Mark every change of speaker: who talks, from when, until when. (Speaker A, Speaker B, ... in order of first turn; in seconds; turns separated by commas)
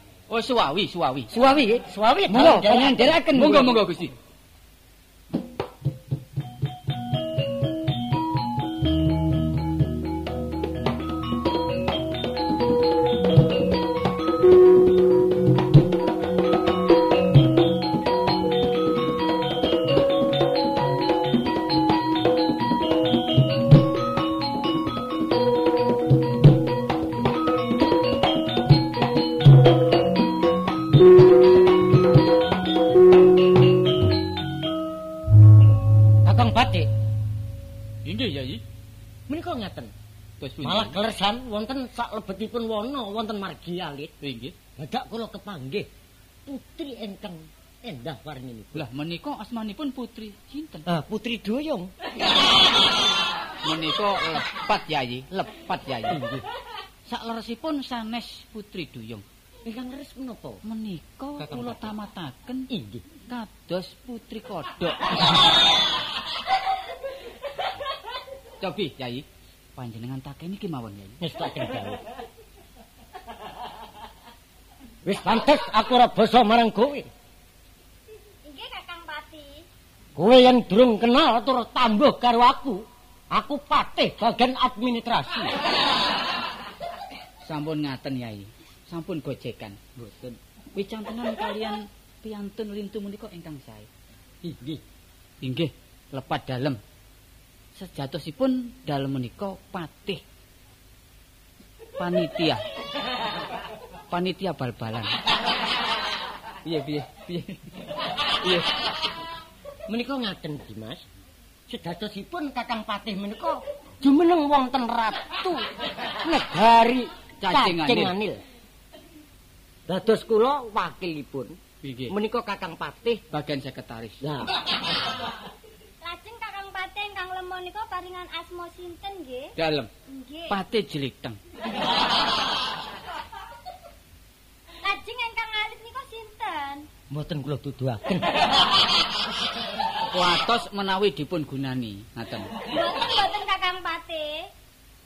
Speaker A: 0.3-1.3, Speaker B: 1.3-3.9, Speaker C: 1.9-3.1, Speaker A: 3.3-4.1, Speaker C: 36.2-36.9, Speaker A: 38.0-38.6, Speaker C: 39.3-39.9, Speaker A: 40.4-40.9, Speaker C: 40.6-44.1, Speaker A: 44.2-44.5, Speaker C: 44.8-45.9, Speaker C: 46.5-48.9, Speaker A: 48.7-50.9, Speaker C: 50.9-51.9, Speaker A: 53.6-56.2, Speaker C: 56.1-56.4, Speaker A: 57.1-59.2, Speaker C: 59.6-60.6, Speaker A: 60.6-62.7, Speaker C: 61.4-62.0, Speaker C: 62.7-63.0, Speaker A: 63.3-65.0, Speaker A: 68.6-69.2, Speaker A: 69.8-71.2, Speaker C: 71.2-72.0, Speaker C: 75.0-77.1, Speaker D: 78.4-79.6, Speaker C: 80.2-85.5, Speaker A: 87.4-93.9, Speaker C: 94.4-94.8, Speaker A: 95.4-96.8, Speaker A: 97.8-100.2, Speaker A: 102.0-102.6, Speaker A: 104.1-105.1, Speaker A: 106.6-107.6, Speaker C: 109.9-111.0, Speaker C: 111.7-115.7, Speaker C: 116.2-118.4, Speaker A: 117.4-118.1, Speaker C: 119.9-121.6, Speaker A: 121.8-122.1, Speaker C: 122.1-123.2, Speaker A: 123.3-124.2, Speaker C: 124.2-124.5, Speaker D: 126.0-129.5, Speaker A: 129.6-129.9, Speaker D: 130.1-130.6, Speaker A: 130.5-131.4, Speaker D: 134.8-136.9, Speaker C: 137.1-138.4, Speaker A: 140.1-142.5, Speaker D: 142.7-144.5